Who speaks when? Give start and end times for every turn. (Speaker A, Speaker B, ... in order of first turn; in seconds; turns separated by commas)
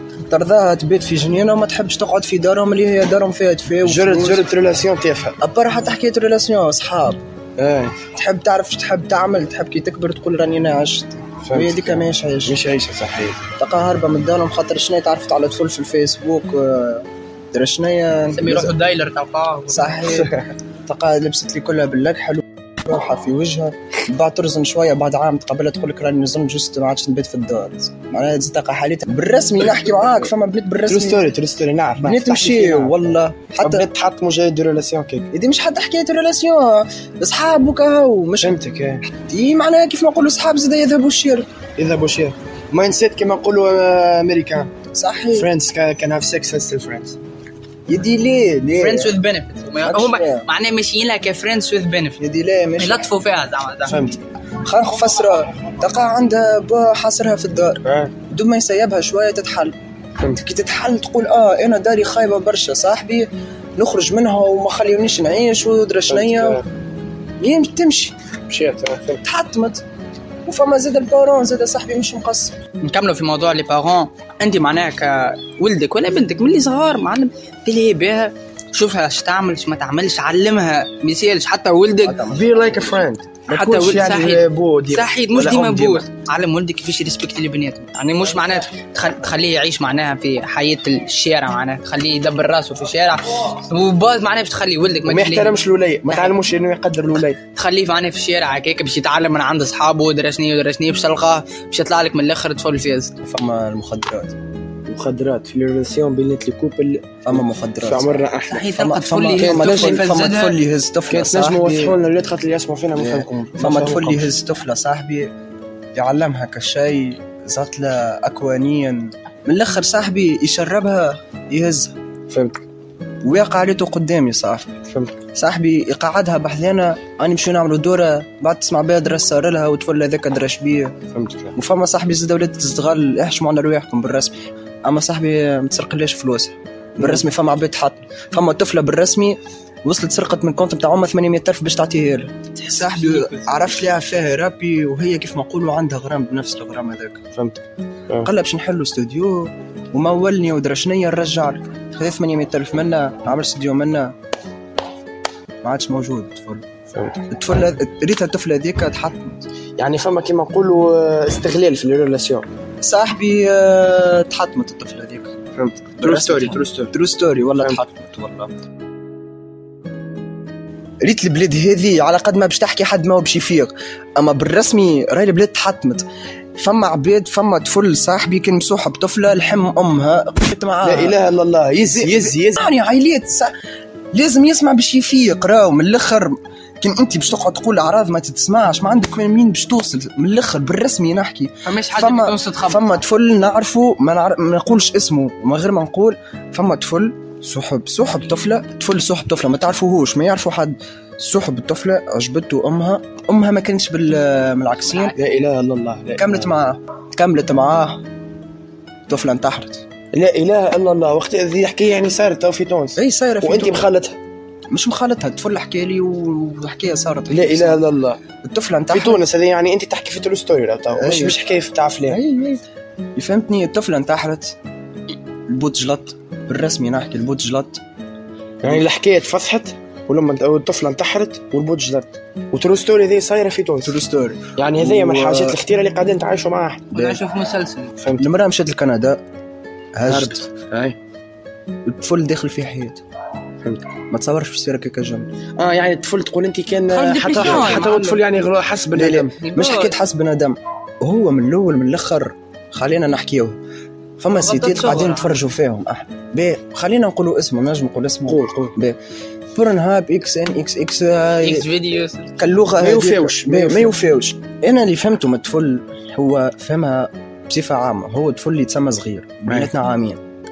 Speaker A: 0.3-4.5, Speaker B: 3.8-5.4, Speaker A: 5.4-7.2, Speaker B: 7.6-8.1, Speaker A: 8.1-12.6, Speaker B: 11.4-13.4, Speaker A: 13.6-18.7, Speaker C: 18.3-20.3, Speaker A: 19.7-20.3, Speaker A: 20.9-31.3, Speaker B: 30.9-33.0, Speaker A: 32.0-33.9, Speaker B: 33.6-35.3, Speaker A: 35.3-41.5, Speaker B: 38.4-39.0, Speaker B: 41.8-44.7, Speaker A: 44.9-45.5, Speaker B: 45.3-47.2, Speaker A: 47.9-49.1, Speaker C: 48.7-52.2, Speaker A: 49.8-50.5, Speaker A: 52.2-53.1, Speaker C: 52.8-54.0, Speaker B: 53.9-54.2, Speaker A: 54.6-59.8, Speaker B: 57.8-58.1, Speaker A: 60.3-66.6, Speaker B: 66.1-66.6, Speaker A: 67.4-68.1, Speaker B: 68.5-69.2, Speaker A: 69.2-69.8, Speaker A: 70.5-72.6, Speaker C: 72.8-82.3, Speaker A: 82.0-83.1, Speaker B: 82.3-86.0, Speaker C: 83.5-96.3, Speaker B: 95.0-97.4, Speaker C: 97.5-103.1, Speaker A: 103.2-104.3, Speaker B: 104.9-108.7, Speaker A: 107.2-108.1, Speaker C: 108.4-110.6, Speaker A: 108.7-111.9, Speaker B: 109.4-110.1, Speaker B: 111.1-114.3, Speaker A: 113.0-115.3, Speaker A: 115.9-121.9, Speaker B: 122.3-122.6, Speaker A: 123.2-124.8, Speaker B: 124.9-125.2, Speaker A: 125.3-130.9, Speaker B: 131.1-131.6, Speaker A: 131.6-134.3, Speaker A: 134.8-147.2, Speaker C: 142.6-143.8, Speaker B: 147.3-148.3, Speaker A: 148.2-154.1, Speaker A: 155.6-156.6, Speaker B: 156.9-157.3, Speaker A: 157.3-159.4, Speaker B: 159.8-162.4, Speaker A: 162.8-165.3, Speaker B: 165.5-166.9, Speaker A: 166.0-168.6, Speaker A: 171.0-176.0, Speaker A: 176.6-181.2, Speaker B: 180.8-182.6, Speaker A: 181.9-183.5, Speaker A: 184.1-205.2, Speaker C: 191.6-192.8, Speaker C: 204.8-205.1, Speaker B: 205.2-206.5, Speaker A: 206.2-208.0, Speaker A: 209.1-209.8, Speaker B: 210.1-214.2, Speaker A: 212.9-213.9, Speaker A: 214.7-217.8, Speaker B: 217.3-218.2, Speaker A: 218.4-219.2, Speaker B: 218.9-222.2, Speaker A: 221.0-221.4, Speaker A: 222.1-222.6, Speaker A: 223.2-224.6, Speaker A: 225.5-227.8, Speaker B: 228.6-234.0, Speaker A: 233.8-235.6, Speaker B: 234.6-236.9, Speaker C: 236.9-237.9, Speaker A: 236.9-237.2, Speaker B: 238.0-238.2, Speaker A: 238.2-239.2, Speaker A: 239.9-240.5, Speaker B: 240.1-240.9, Speaker A: 241.8-243.0, Speaker B: 243.6-243.9, Speaker A: 244.1-245.3, Speaker B: 245.6-249.3, Speaker C: 246.9-248.2, Speaker A: 247.3-247.9, Speaker A: 248.9-253.6, Speaker C: 249.4-249.9, Speaker A: 254.2-259.0, Speaker C: 254.3-255.4, Speaker B: 258.3-258.8, Speaker A: 259.5-261.6, Speaker C: 261.4-262.4, Speaker A: 262.4-270.2, Speaker B: 262.8-264.0